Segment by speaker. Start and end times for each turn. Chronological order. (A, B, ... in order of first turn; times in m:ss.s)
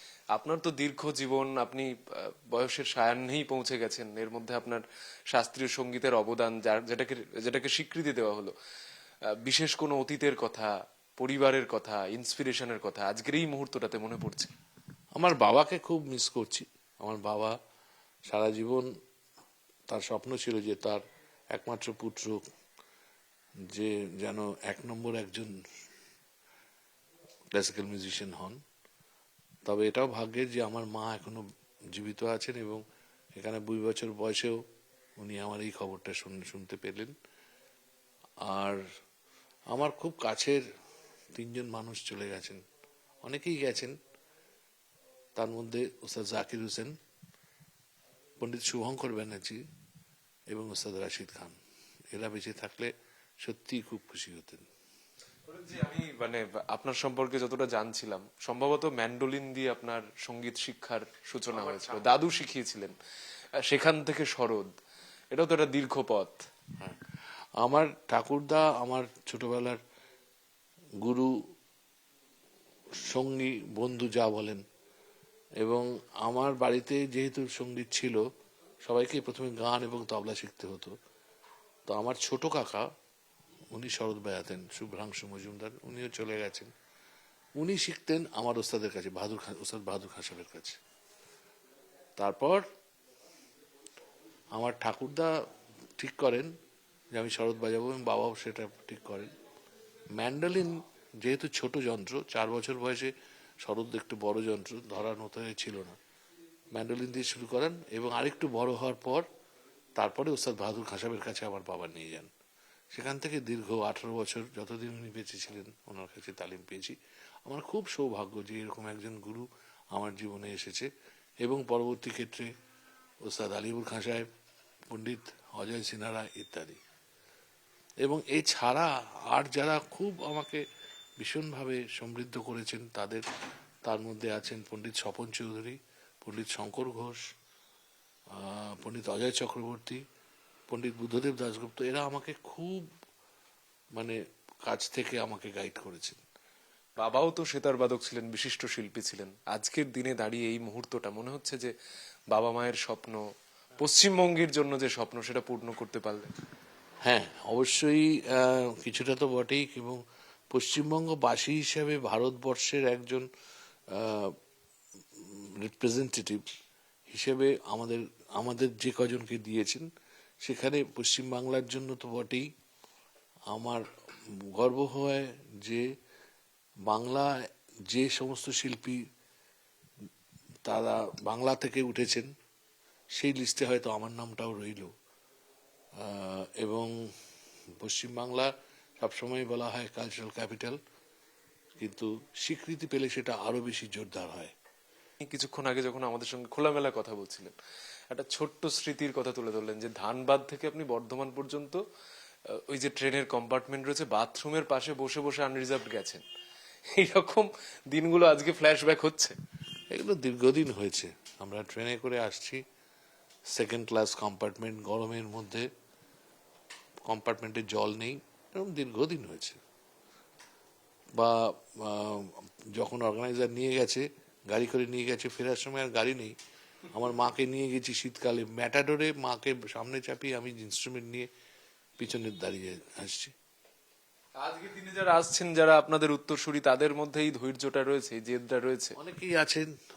0:00.3-0:08.5 A
0:09.4-0:14.5 A
0:15.2-0:17.6 B
0:18.3-0:18.9 B
0:19.9-0:21.0 B
0:21.5-0:22.4 B
0:23.7-0:25.5 B
0:27.5-0:28.6 B
0:29.6-0:31.4 B
0:31.9-0:32.8 B
0:33.3-0:34.6 B
0:35.2-0:37.1 B
0:38.4-0:38.8 B
0:39.7-0:40.6 B
0:41.3-0:42.6 B
0:43.2-0:43.9 B
0:45.3-0:46.9 B
0:48.4-0:49.6 B
0:50.5-0:51.5 B
0:52.1-0:52.9 B
0:53.4-0:54.7 B
0:55.5-1:02.9 A
1:01.5-1:02.1 B
1:03.7-1:04.7 A
1:05.3-1:06.4 A
1:07.6-1:09.8 B
1:11.0-1:11.3 B
1:13.0-1:14.6 B
1:15.6-1:18.2 B
1:18.8-1:20.9 B
1:21.9-1:22.8 B
1:23.7-1:26.7 B
1:27.6-1:30.8 B
1:32.2-1:32.6 B
1:34.5-1:35.3 B
1:36.0-1:36.5 B
1:37.1-1:39.3 B
1:40.1-1:43.1 B
1:43.6-1:45.9 B
1:46.7-1:49.2 B
1:50.0-1:52.3 B
1:52.9-1:56.9 B
1:57.4-2:00.9 B
2:01.4-2:02.5 B
2:03.2-2:04.3 B
2:04.9-2:06.8 B
2:08.0-2:10.6 B
2:11.2-2:13.2 B
2:13.8-2:17.2 B
2:18.3-2:20.0 B
2:20.7-2:22.9 B
2:24.0-2:26.2 B
2:27.0-2:31.7 A
2:32.3-2:33.2 A
2:33.8-2:36.3 A
2:37.0-2:40.0 B
2:40.5-2:43.2 B
2:43.9-2:44.3 B
2:45.2-2:46.4 B
2:47.1-2:49.9 B
2:50.4-2:52.4 B
2:53.5-2:53.8 B
2:54.5-2:55.8 B
2:56.9-2:57.3 B
2:57.9-2:59.0 B
3:00.6-3:02.3 B
3:03.2-3:04.9 B
3:06.0-3:06.9 B
3:07.8-3:10.8 B
3:11.8-3:14.5 B
3:15.2-3:17.5 A
3:18.1-3:21.8 A
3:22.7-3:26.2 A
3:27.0-3:29.3 A
3:29.9-3:32.6 B
3:33.5-3:35.7 B
3:37.0-3:39.6 B
3:41.2-3:46.3 B
3:46.9-3:51.3 B
3:52.0-3:53.3 B
3:54.4-3:58.9 A
3:59.0-3:59.7 B